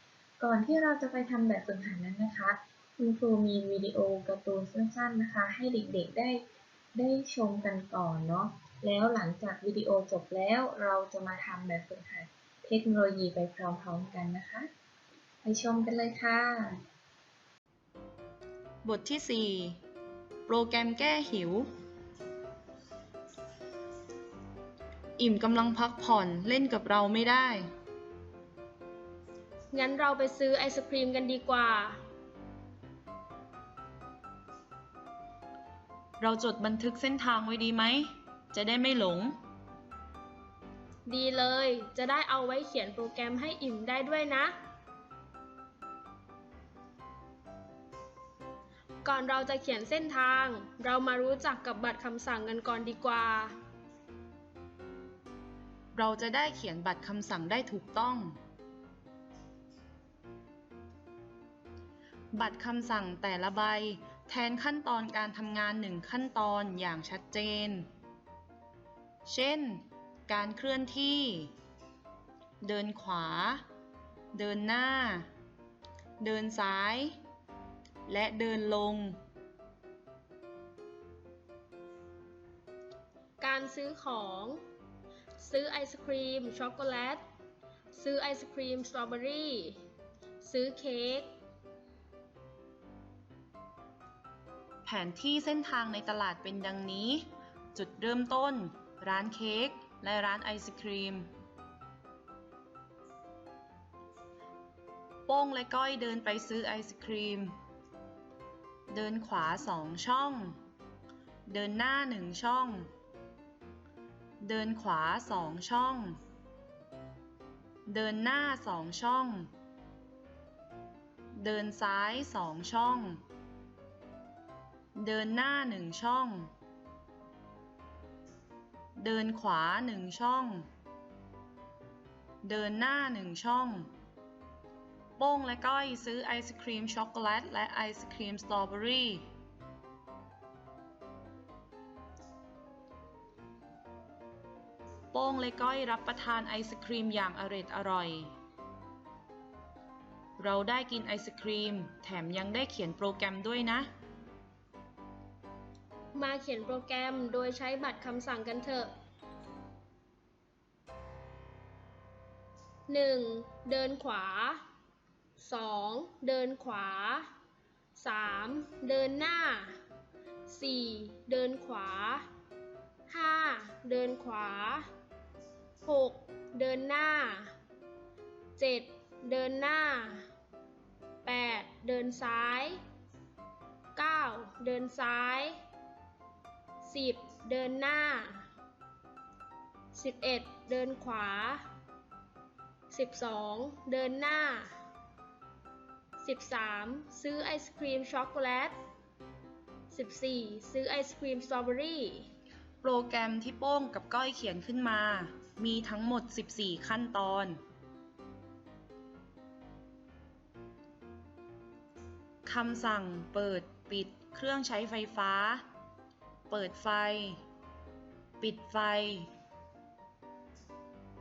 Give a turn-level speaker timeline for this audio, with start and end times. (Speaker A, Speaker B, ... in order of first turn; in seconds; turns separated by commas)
Speaker A: 0.4-6.4, Speaker A: 7.0-14.7, Speaker A: 15.4-16.8, Speaker B: 18.8-19.8, Speaker B: 20.5-21.7, Speaker B: 25.2-27.7, Speaker C: 29.7-32.0, Speaker B: 36.2-39.4, Speaker C: 41.1-44.5, Speaker C: 49.0-53.6, Speaker B: 55.9-58.4, Speaker B: 62.3-67.9, Speaker B: 69.3-71.5, Speaker B: 72.6-73.7, Speaker B: 74.3-75.3, Speaker B: 76.2-77.2, Speaker B: 78.1-79.2, Speaker C: 83.4-84.6, Speaker C: 85.4-87.2, Speaker C: 88.0-89.8, Speaker C: 90.4-91.3, Speaker B: 94.8-101.3, Speaker B: 105.3-107.6, Speaker B: 108.9-110.6, Speaker B: 111.5-112.9, Speaker B: 114.4-116.2, Speaker B: 117.9-119.5, Speaker B: 121.3-123.2, Speaker B: 124.9-126.5, Speaker B: 129.0-130.7, Speaker B: 132.4-133.9, Speaker B: 135.2-139.3, Speaker B: 145.1-148.3, Speaker B: 150.4-153.9, Speaker C: 156.1-158.9, Speaker C: 162.9-164.6, Speaker C: 165.4-167.3, Speaker C: 168.0-169.8, Speaker C: 170.5-172.3, Speaker C: 173.1-174.9, Speaker C: 175.8-177.5, Speaker C: 178.6-180.3, Speaker C: 181.2-182.8, Speaker C: 184.0-185.6, Speaker C: 186.8-188.4, Speaker C: 189.9-191.7, Speaker C: 192.9-194.8, Speaker C: 196.2-198.8, Speaker C: 199.9-202.3, Speaker B: 202.8-207.6, Speaker B: 212.4-215.7, Speaker B: 216.5-217.4, Speaker B: 218.4-219.3